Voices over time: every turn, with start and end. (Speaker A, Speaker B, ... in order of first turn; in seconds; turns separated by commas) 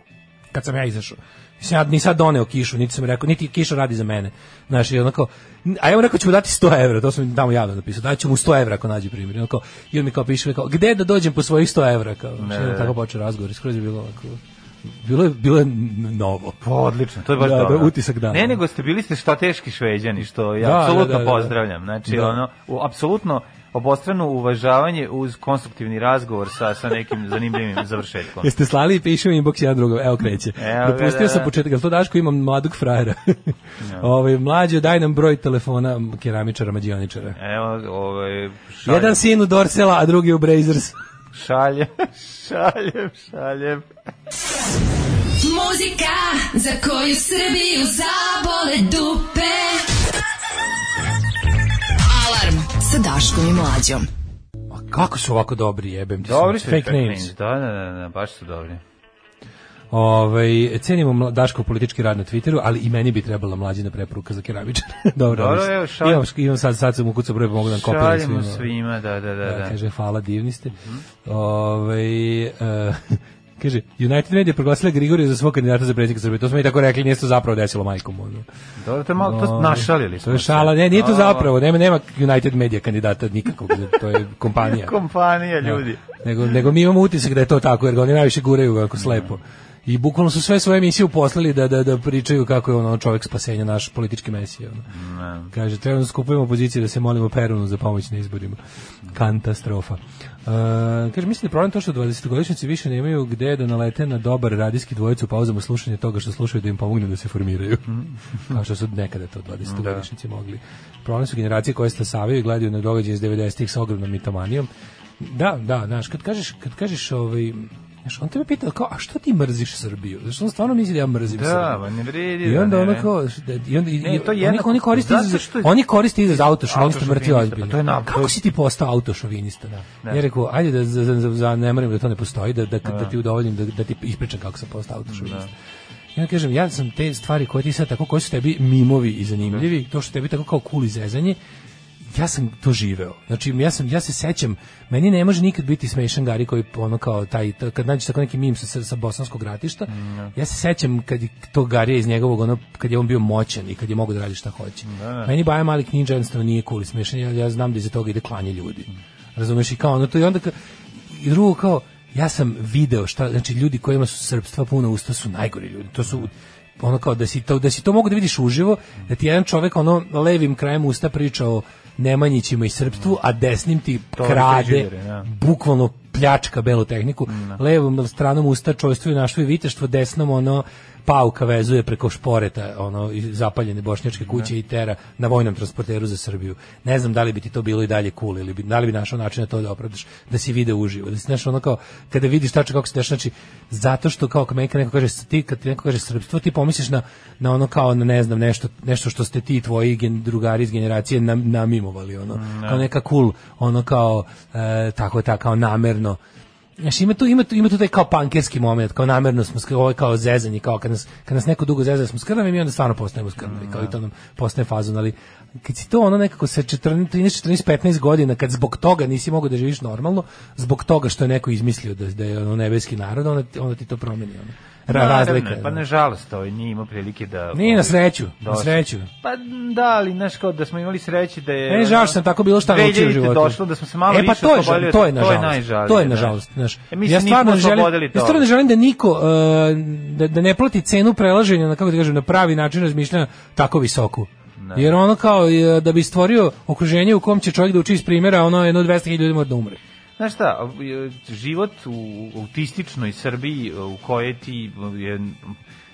Speaker A: 0.5-16.6, Speaker B: 12.4-12.9, Speaker B: 16.6-28.5, Speaker A: 17.3-18.6, Speaker A: 20.6-21.6, Speaker A: 22.1-22.4, Speaker A: 28.4-37.4, Speaker B: 30.6-31.5, Speaker B: 33.8-34.1, Speaker B: 37.4-39.2, Speaker A: 38.8-41.0, Speaker B: 41.3-43.9, Speaker C: 45.4-49.9, Speaker C: 52.1-54.1, Speaker A: 54.7-57.3, Speaker B: 56.2-58.8, Speaker A: 59.9-68.7, Speaker B: 65.3-66.2, Speaker B: 67.7-69.8, Speaker A: 69.4-78.5, Speaker B: 78.8-81.5, Speaker A: 79.2-85.0, Speaker B: 84.6-86.1, Speaker A: 85.6-94.9, Speaker B: 89.0-89.3, Speaker B: 94.9-95.5, Speaker A: 95.5-108.0, Speaker B: 107.9-108.2, Speaker A: 108.5-121.8, Speaker B: 109.7-110.0, Speaker B: 121.3-123.1, Speaker A: 122.4-135.5, Speaker B: 124.0-128.4, Speaker B: 129.8-130.2, Speaker B: 132.8-133.1, Speaker B: 135.1-135.5, Speaker A: 136.1-141.4, Speaker A: 142.1-206.2, Speaker B: 149.9-150.3, Speaker B: 154.8-155.3, Speaker B: 174.2-175.3, Speaker B: 177.3-177.6, Speaker B: 202.3-202.8, Speaker A: 206.8-225.8, Speaker B: 213.4-213.9, Speaker B: 224.9-236.4, Speaker A: 227.5-229.1, Speaker A: 231.7-249.8, Speaker B: 236.9-238.5, Speaker B: 244.6-244.9, Speaker B: 250.2-255.6